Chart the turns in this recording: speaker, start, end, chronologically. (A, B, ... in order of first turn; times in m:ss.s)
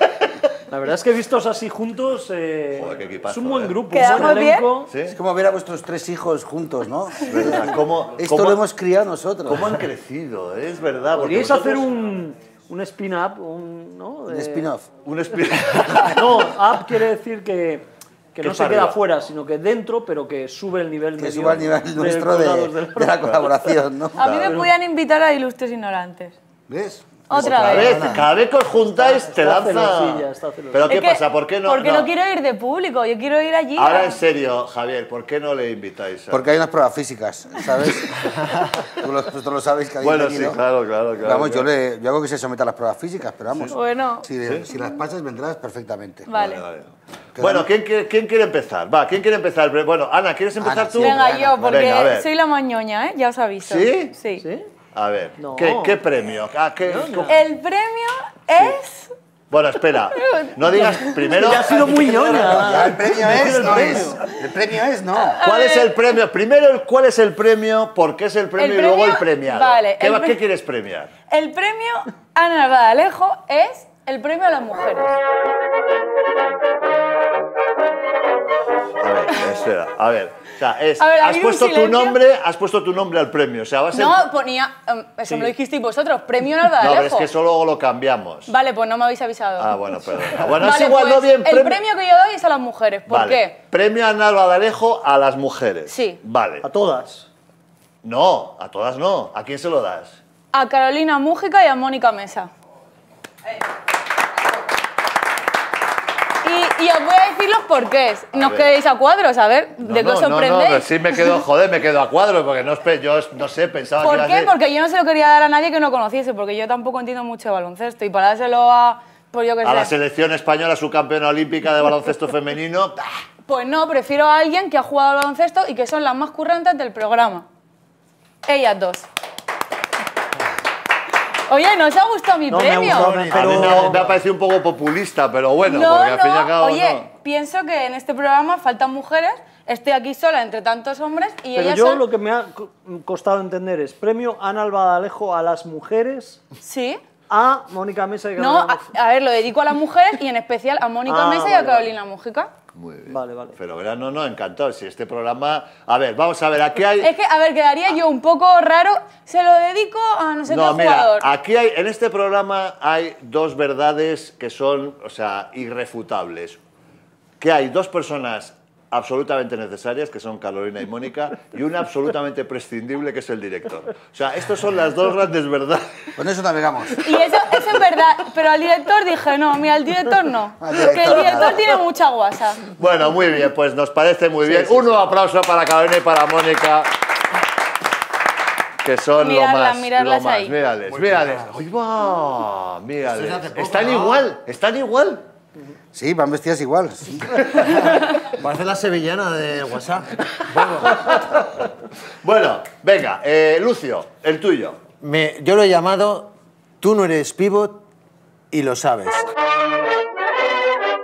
0:00.7-0:04.9 A
0:02.8-0:04.0 B
0:03.9-0:04.8 C
0:04.9-0:05.2 B
0:05.0-0:09.8 D
0:07.2-0:08.6 B
0:09.5-0:12.0 B
0:11.2-0:14.7 A
0:14.3-0:14.9 D
0:15.0-0:16.4 B
0:16.1-0:23.4 A
0:18.4-0:19.0 B
0:21.2-0:24.3 D
0:24.2-0:26.4 C
0:24.2-0:24.6 B
0:26.7-0:28.2 D
0:27.3-0:28.0 C
0:27.3-0:32.1 B
0:28.7-0:30.9 A
0:30.9-0:34.2 C
0:33.8-0:36.4 B
0:36.3-0:40.6 D
0:40.0-0:41.7 B
0:41.2-0:46.3 D
0:43.7-0:44.3 C
0:46.3-0:46.6 C
0:46.3-0:52.3 B
0:47.4-0:47.7 D
0:50.6-0:51.7 D
0:51.0-0:54.4 C
0:53.6-0:54.2 B
0:54.4-0:54.7 A
0:54.9-0:57.4 B
0:55.4-0:56.0 A
0:56.8-0:57.4 A
0:57.3-0:59.1 C
0:59.5-1:02.6 B
1:00.1-1:01.3 C
1:01.3-1:04.2 A
1:02.4-1:05.4 D
1:05.2-1:06.0 C
1:05.4-1:11.1 B
1:08.6-1:10.4 C
1:11.3-1:15.1 C
1:19.0-1:24.2 B
1:21.0-1:22.2 C
1:23.9-1:27.3 C
1:25.3-1:25.5 A
1:26.8-1:28.5 B
1:28.5-1:30.0 C
1:29.6-1:31.8 B
1:30.6-1:33.6 C
1:33.1-1:36.7 B
1:35.9-1:36.2 C
1:36.6-1:37.3 A
1:38.0-1:40.2 B
1:40.5-1:42.5 C
1:46.4-1:51.4 C
1:48.4-1:48.7 B
1:49.8-1:54.5 B
1:54.0-1:59.9 C
1:59.6-2:03.1 B
2:03.5-2:07.5 C
2:08.5-2:09.1 C
2:11.5-2:13.3 C
2:12.5-2:14.1 A
2:13.2-2:17.1 B
2:13.4-2:13.7 E
2:15.6-2:22.0 C
2:21.5-2:26.4 A
2:26.6-2:27.0 C
2:27.3-2:28.9 A
2:28.4-2:32.5 C
2:31.1-2:31.9 A
2:32.8-2:37.1 B
2:33.1-2:33.6 A
2:37.0-2:41.3 C
2:40.5-2:46.6 B
2:47.4-2:55.8 B
2:56.2-2:57.0 D
2:57.0-3:02.6 C
3:00.6-3:01.7 D
3:02.8-3:06.9 B
3:08.8-3:15.2 B
3:09.2-3:10.6 C
3:11.1-3:11.3 E
3:13.0-3:14.3 E
3:15.9-3:17.3 D
3:18.4-3:21.0 E
3:22.2-3:24.8 B
3:25.0-3:27.8 E
3:28.5-3:29.2 E